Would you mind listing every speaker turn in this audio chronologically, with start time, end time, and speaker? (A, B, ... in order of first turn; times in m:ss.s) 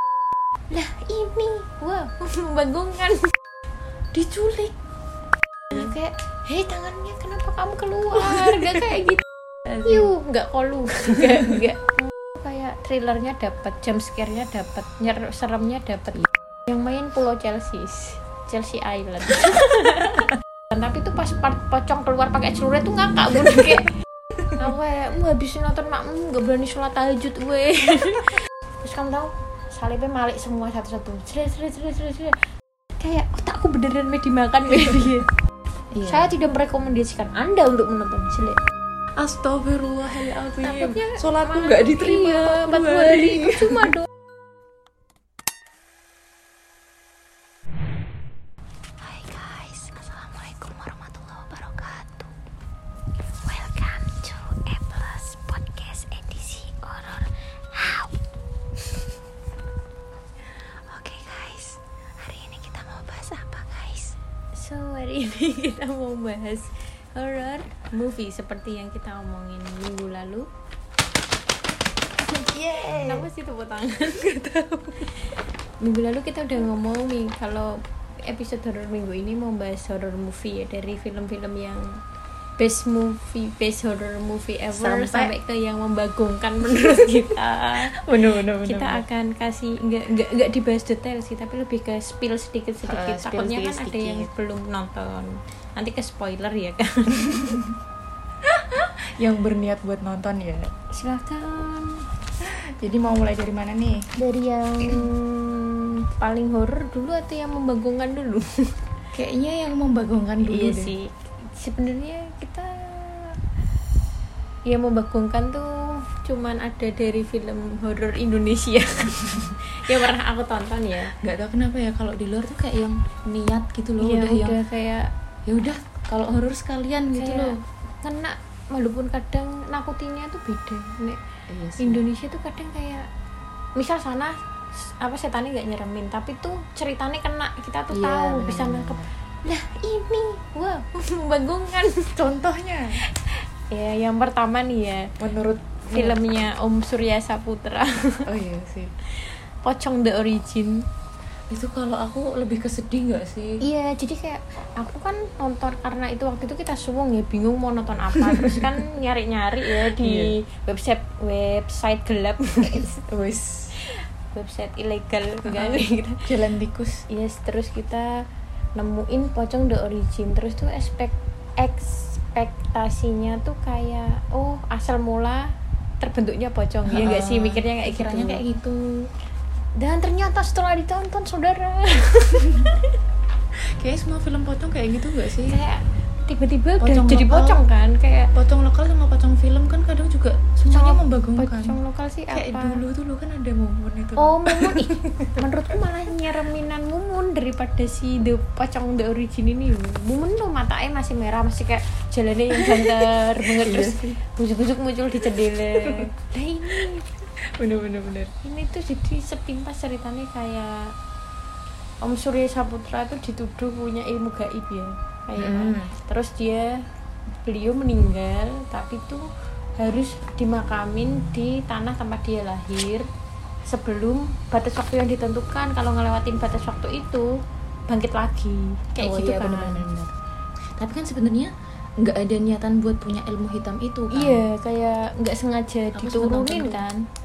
0:00.7-0:03.3 A
0:04.1-0:04.8 B
0:05.7-0:09.2 A
0:08.3-0:08.6 B
0:09.8-0:23.9 A
0:24.5-0:32.4 A
0:33.0-0:35.3 A
0:35.9-0:36.3 B
0:36.0-0:38.6 A
0:39.2-0:44.0 B
0:40.6-0:44.1 A
0:49.0-0:52.3 B
0:53.4-0:58.2 A
0:58.8-0:59.1 A
1:00.9-1:10.5 A
1:12.3-1:13.3 B
1:12.9-1:14.3 A
1:14.1-1:15.1 B
1:15.8-1:22.0 A
1:22.6-1:37.6 A
1:24.7-1:25.3 B
1:26.6-1:27.4 B
1:28.0-1:29.0 B
1:32.8-1:34.3 B
1:37.1-1:37.7 B
1:38.4-1:40.7 B
1:40.9-1:42.0 A
1:42.4-1:44.1 B
1:44.2-1:48.7 A
1:49.1-1:50.9 B
1:50.5-1:53.4 A
1:54.7-2:01.2 A
2:01.2-2:04.6 B
2:04.0-2:05.1 A
2:05.5-2:07.6 B
2:07.2-2:11.2 A
2:11.5-2:12.0 B
2:11.8-2:13.1 A
2:13.8-2:22.2 A
2:17.9-2:19.1 B
2:22.2-2:23.0 B
2:23.1-2:25.1 A
2:25.2-2:26.2 B
2:25.9-2:28.3 A
2:28.3-2:28.9 B
2:29.2-2:30.9 A
2:31.5-2:33.6 B
2:33.6-2:43.0 A
2:38.2-2:38.7 B
2:39.7-2:40.4 B
2:42.8-2:43.8 B
2:43.8-2:46.2 A
2:45.4-2:47.0 B
2:47.1-2:58.4 A
2:56.9-2:59.1 B
2:59.8-3:03.0 A
3:03.7-3:05.6 B
3:05.5-3:08.3 A
3:06.8-3:07.6 B
3:08.4-3:11.8 B
3:10.7-3:12.8 A
3:12.3-3:15.5 B
3:14.2-3:27.1 A
3:22.5-3:24.2 B
3:25.8-3:26.1 B
3:26.7-3:28.3 B
3:28.4-3:30.9 A
3:32.0-3:36.8 A
3:35.4-3:35.9 B
3:37.4-3:39.3 A
3:39.8-3:43.1 A
3:43.7-3:47.4 A
3:47.9-3:49.9 A
3:49.0-3:50.2 B
3:50.8-3:54.4 B
3:54.1-3:57.1 A
3:56.0-3:56.9 B